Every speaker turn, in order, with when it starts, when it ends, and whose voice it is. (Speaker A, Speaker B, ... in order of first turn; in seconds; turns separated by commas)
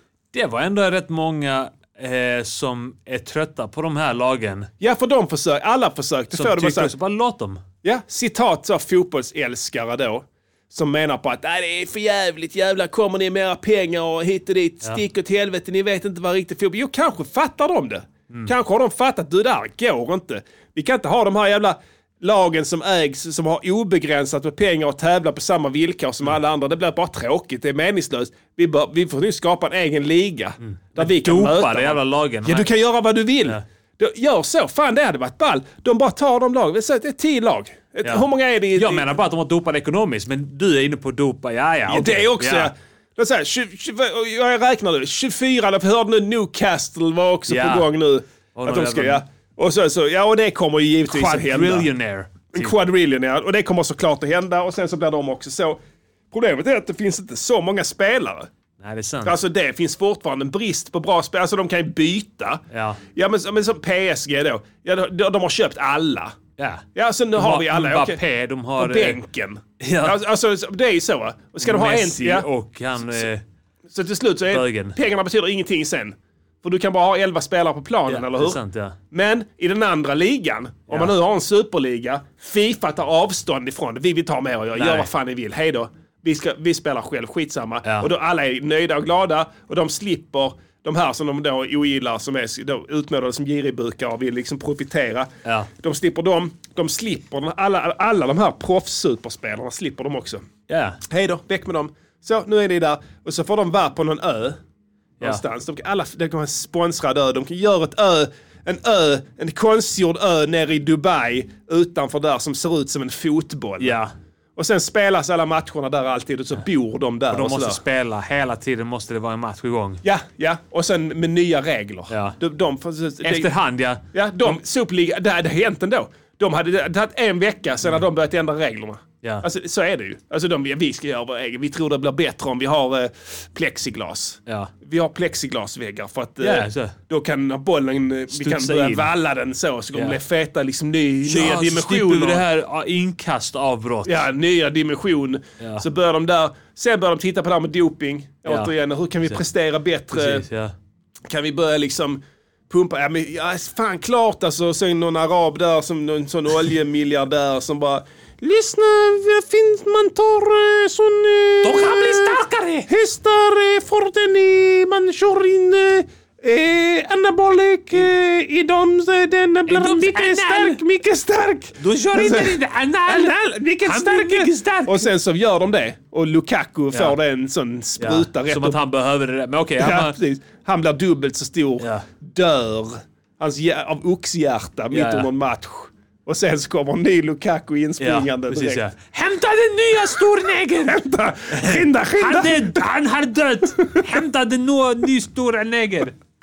Speaker A: 0.3-4.7, Speaker B: 4.8-6.9, Speaker A: 6.3-7.6, Speaker B: 7.8-39.1, Speaker A: 30.6-32.7, Speaker A: 38.0-42.7, Speaker B: 41.9-51.9, Speaker A: 47.5-47.9, Speaker A: 48.5-49.2, Speaker A: 51.1-52.7, Speaker B: 52.5-55.8, Speaker B: 56.3-58.5, Speaker A: 58.8-59.4, Speaker B: 59.2-62.6, Speaker A: 62.7-63.0, Speaker B: 63.1-66.4, Speaker A: 66.6-69.2, Speaker B: 67.0-68.2, Speaker B: 68.8-72.5, Speaker A: 69.8-70.2, Speaker A: 71.6-73.4, Speaker B: 73.9-78.6, Speaker A: 74.5-75.0, Speaker A: 78.1-79.0, Speaker B: 79.1-100.4, Speaker A: 80.9-81.2, Speaker A: 84.8-85.1, Speaker A: 87.8-88.1, Speaker A: 95.5-95.7, Speaker A: 100.7-101.0, Speaker B: 101.1-104.6, Speaker B: 105.2-114.0, Speaker A: 113.8-114.1, Speaker B: 114.6-117.8, Speaker A: 117.3-120.0, Speaker B: 120.0-123.5, Speaker A: 122.1-122.4, Speaker A: 123.2-124.0, Speaker B: 124.1-142.4, Speaker A: 136.4-136.9, Speaker A: 138.3-139.1, Speaker A: 139.9-140.2, Speaker A: 141.2-144.2, Speaker B: 144.1-150.4, Speaker A: 145.6-145.8, Speaker A: 148.5-148.7, Speaker A: 150.1-150.8, Speaker B: 151.3-178.8, Speaker A: 161.6-162.9, Speaker A: 169.7-170.8, Speaker A: 171.8-175.1, Speaker A: 178.0-180.2, Speaker B: 179.8-188.8, Speaker A: 181.8-182.1, Speaker A: 184.9-185.3, Speaker A: 188.0-191.0, Speaker B: 190.8-192.8, Speaker A: 191.5-196.1, Speaker B: 193.8-194.0